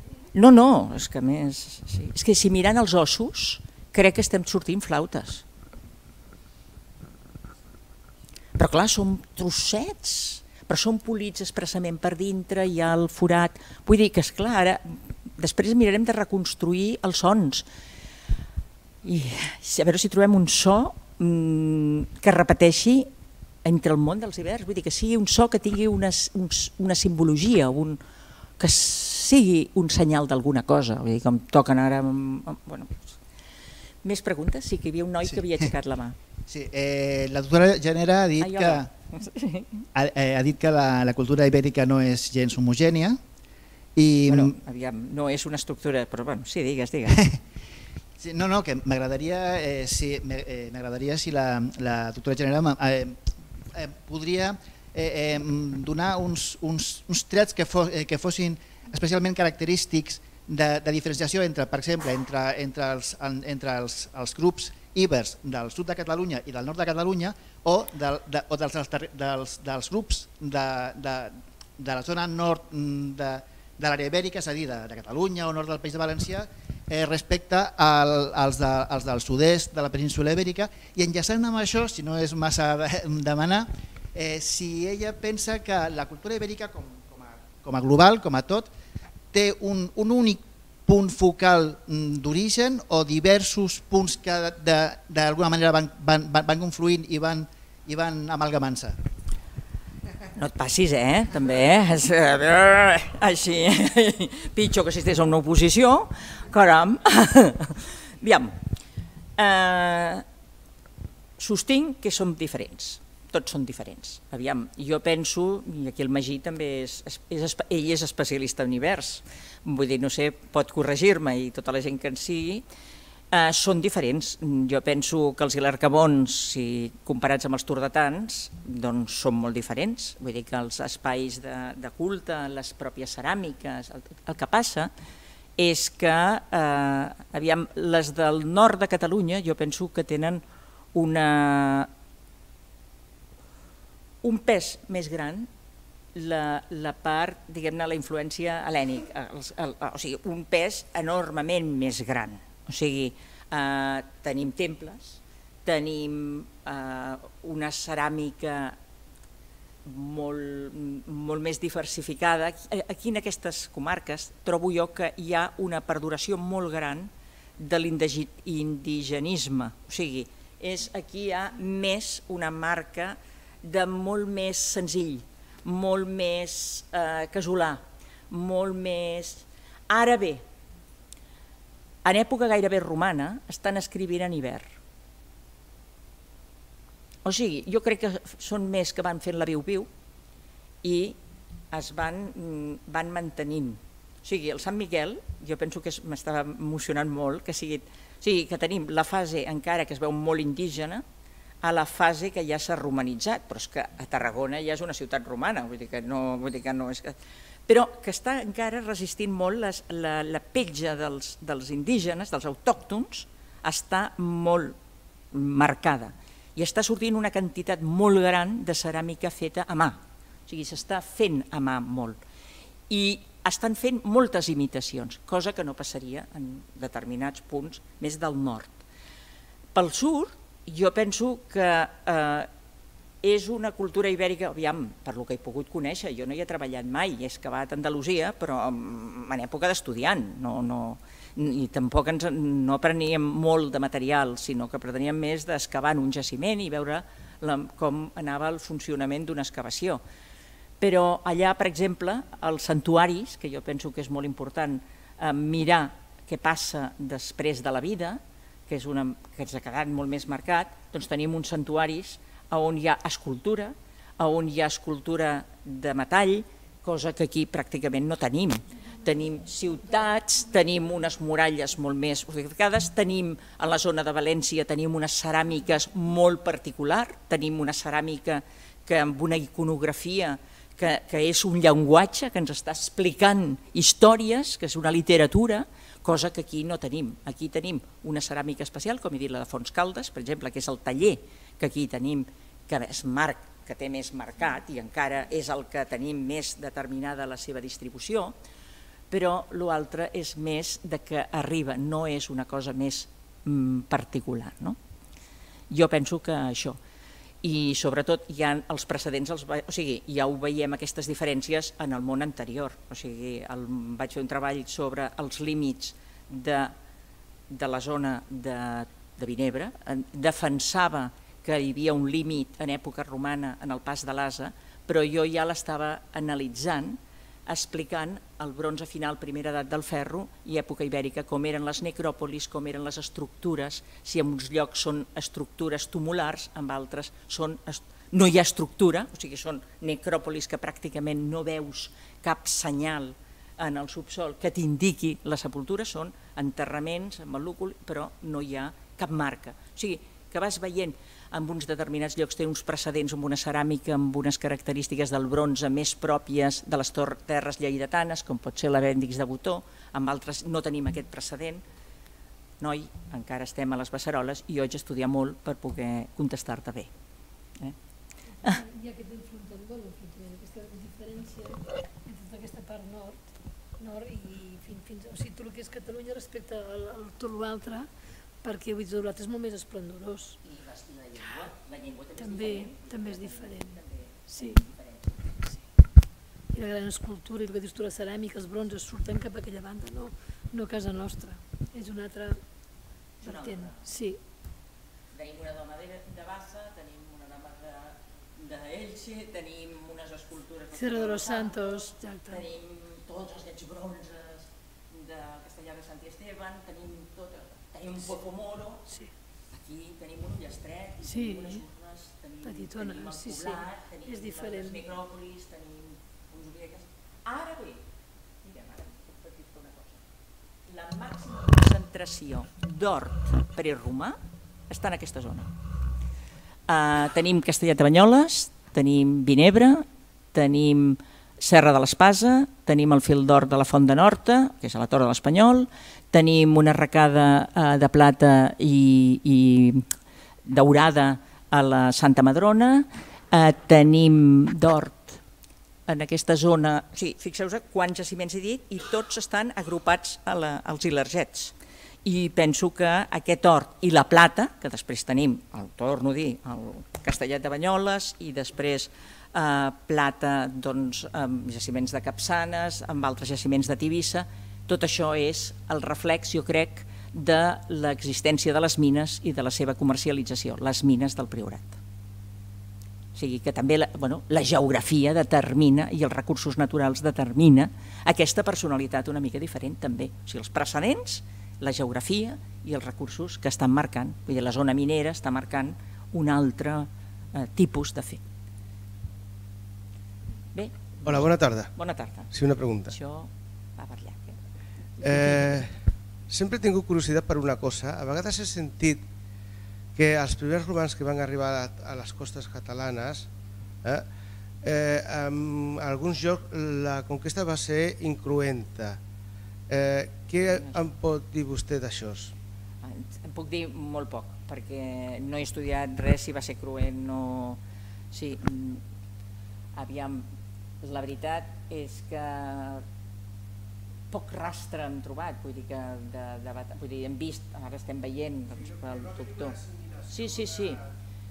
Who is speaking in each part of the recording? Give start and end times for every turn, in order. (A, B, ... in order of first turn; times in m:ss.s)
0:00.3-0:05.4 A
0:08.6-0:17.7 A
0:19.0-0:23.1 A
0:23.6-0:28.0 A
0:28.6-0:33.2 A
0:34.0-0:36.2 A
0:36.5-0:38.9 B
0:38.4-0:39.9 A
0:40.0-0:43.2 B
0:44.0-0:44.5 B
0:44.3-0:47.2 A
0:48.2-0:53.2 B
0:53.7-1:28.7 B
1:29.3-1:39.0 B
1:40.4-1:48.6 A
1:49.4-1:50.2 A
1:51.4-2:02.6 A
2:03.3-2:14.9 A
2:15.6-2:20.4 A
2:20.9-2:21.9 A
2:24.2-2:25.5 A
2:26.2-2:38.8 A
2:39.8-3:00.4 A
3:02.0-3:04.7 A
3:07.2-3:09.9 A
3:10.8-3:11.2 A
3:11.7-3:21.0 A
3:21.6-3:34.8 A
3:35.3-3:42.2 A
3:42.9-3:48.8 A
3:49.8-3:52.5 A
3:53.2-4:10.0 A
4:10.8-4:58.4 A
4:59.1-5:04.8 A
5:05.7-5:06.8 A
5:07.4-5:16.7 A
5:17.5-6:01.6 A
6:02.6-6:06.9 A
6:08.4-6:17.9 C
6:18.4-6:20.4 C
6:20.4-6:25.4 A
6:22.2-6:24.6 C
6:26.5-6:32.4 C
6:33.2-6:34.2 C
6:33.2-6:33.8 A
6:35.1-6:48.9 A
6:40.8-6:42.4 C
6:49.5-6:57.8 A
6:51.0-6:51.6 C
6:52.4-6:54.8 C
6:58.4-7:00.0 A
7:00.7-7:04.2 A
7:04.7-7:05.5 A
7:06.7-7:19.9 A
7:20.5-7:25.2 A
7:25.9-7:51.8 A
7:53.2-8:08.2 A
8:10.5-8:12.3 A
8:11.0-8:11.7 D
8:12.3-8:13.0 D
8:12.9-8:14.4 A
8:15.0-8:15.7 A
8:15.0-8:15.8 D
8:16.3-8:19.0 D
8:20.0-8:23.3 D
8:24.6-8:29.0 D
8:29.7-8:32.3 D
8:30.4-8:30.9 A
8:32.8-8:37.6 A
8:38.1-8:38.8 A
8:39.8-8:40.2 A
8:40.8-8:42.8 A
8:44.1-8:50.8 A
8:48.6-8:50.8 D